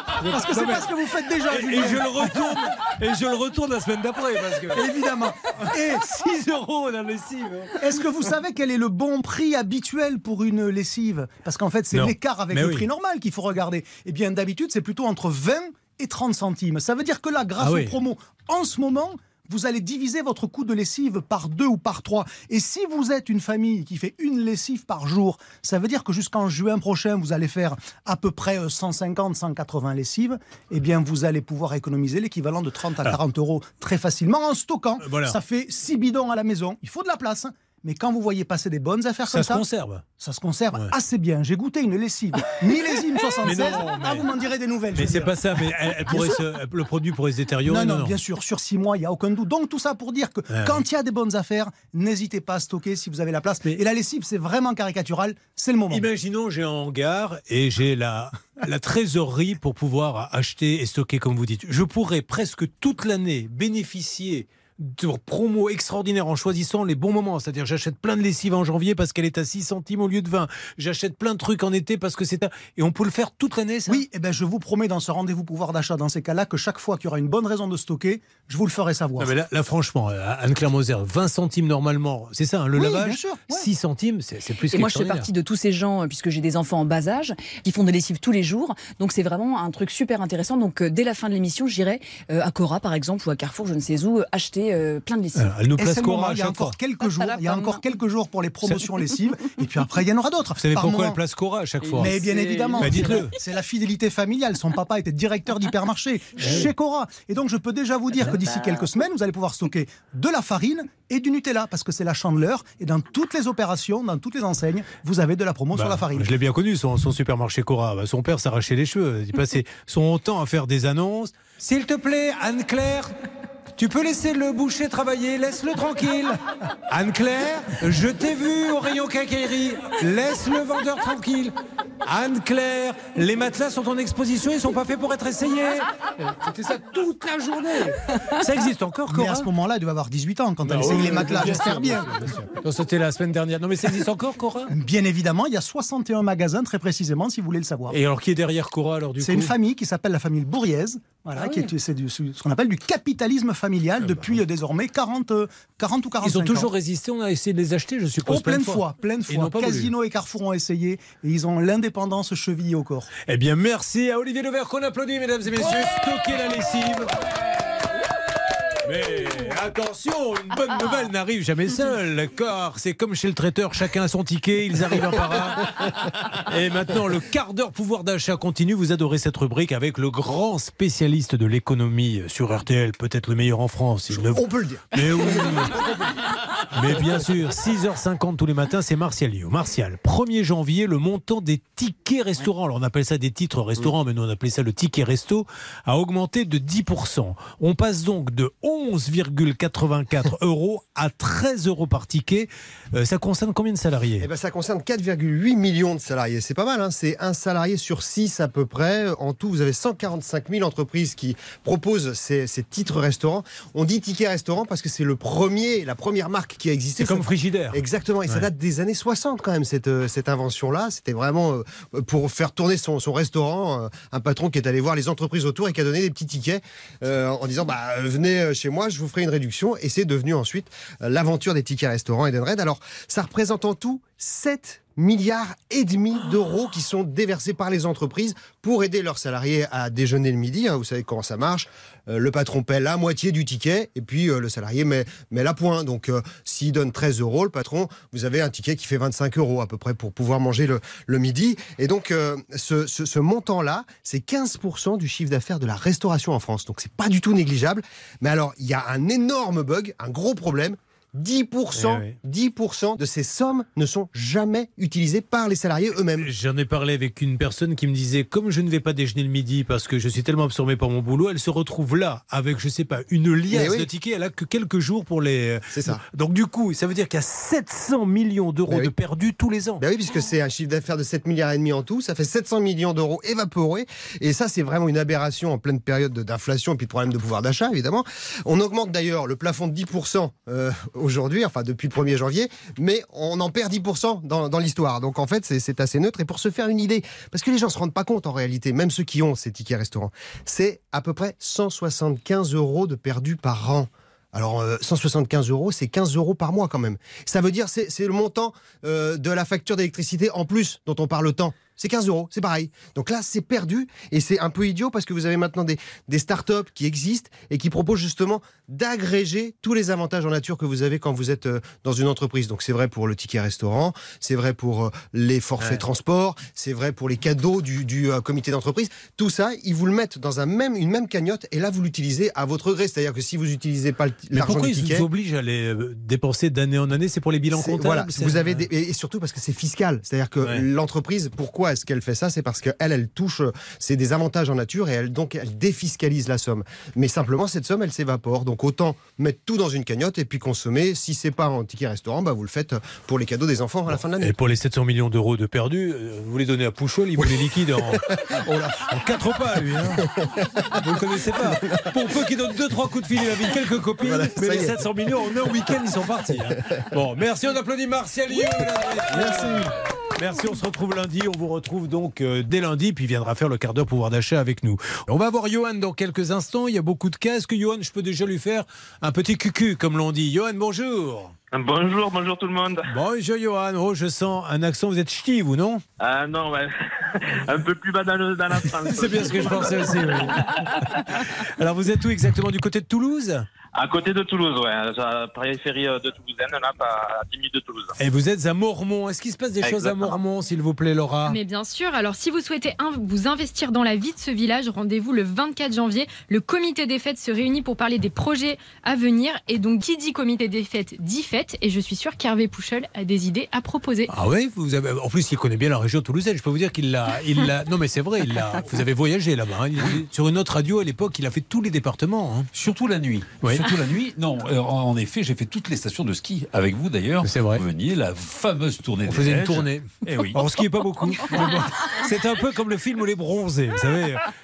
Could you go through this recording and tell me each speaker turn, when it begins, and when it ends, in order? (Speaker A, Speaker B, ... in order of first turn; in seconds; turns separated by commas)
Speaker A: 0.2-0.9, Speaker B: 0.2-2.6, Speaker A: 1.5-4.9, Speaker B: 4.7-6.0, Speaker A: 5.6-7.7, Speaker B: 7.8-39.6, Speaker A: 11.9-12.9, Speaker A: 17.6-17.9, Speaker A: 35.0-35.4, Speaker A: 39.3-40.0, Speaker B: 40.2-45.4, Speaker A: 43.4-44.3, Speaker A: 44.9-48.1, Speaker B: 46.1-46.4, Speaker B: 47.6-56.1, Speaker A: 50.5-50.8, Speaker A: 55.9-74.0, Speaker B: 73.9-79.3, Speaker A: 79.2-85.3, Speaker B: 82.8-83.7, Speaker C: 84.7-95.5, Speaker A: 95.4-96.7, Speaker B: 95.8-101.2, Speaker C: 97.0-97.7, Speaker A: 100.6-102.2, Speaker B: 101.9-116.3, Speaker A: 102.8-103.3, Speaker A: 106.4-106.7, Speaker A: 115.7-123.1, Speaker A: 123.8-126.4, Speaker A: 126.9-131.5, Speaker A: 132.1-139.5, Speaker B: 139.1-142.2, Speaker A: 140.6-144.7, Speaker B: 144.7-148.0, Speaker A: 147.9-149.5, Speaker B: 149.2-156.7, Speaker A: 151.4-151.7, Speaker A: 154.0-154.3, Speaker A: 156.2-159.9, Speaker B: 158.2-163.1, Speaker A: 163.3-167.1, Speaker A: 168.8-175.7, Speaker A: 176.5-185.8, Speaker D: 184.1-185.0, Speaker A: 186.7-204.3, Speaker D: 204.2-266.3, Speaker A: 217.0-218.5, Speaker A: 261.7-262.1, Speaker A: 266.1-279.8, Speaker D: 273.5-273.9, Speaker D: 275.7-276.0, Speaker D: 279.8-335.1, Speaker A: 334.3-338.6, Speaker D: 337.5-354.3, Speaker A: 353.9-360.1, Speaker A: 360.8-381.3, Speaker D: 364.0-364.8, Speaker D: 369.1-369.7, Speaker E: 381.5-382.9, Speaker A: 382.9-385.8, Speaker E: 386.0-390.9, Speaker A: 388.9-390.9, Speaker A: 391.6-393.5, Speaker E: 393.7-397.9, Speaker A: 398.0-401.4, Speaker E: 399.6-400.1, Speaker F: 401.3-414.1, Speaker A: 414.1-422.5, Speaker G: 422.5-430.4, Speaker A: 423.4-423.7, Speaker A: 427.2-427.6, Speaker A: 429.1-434.3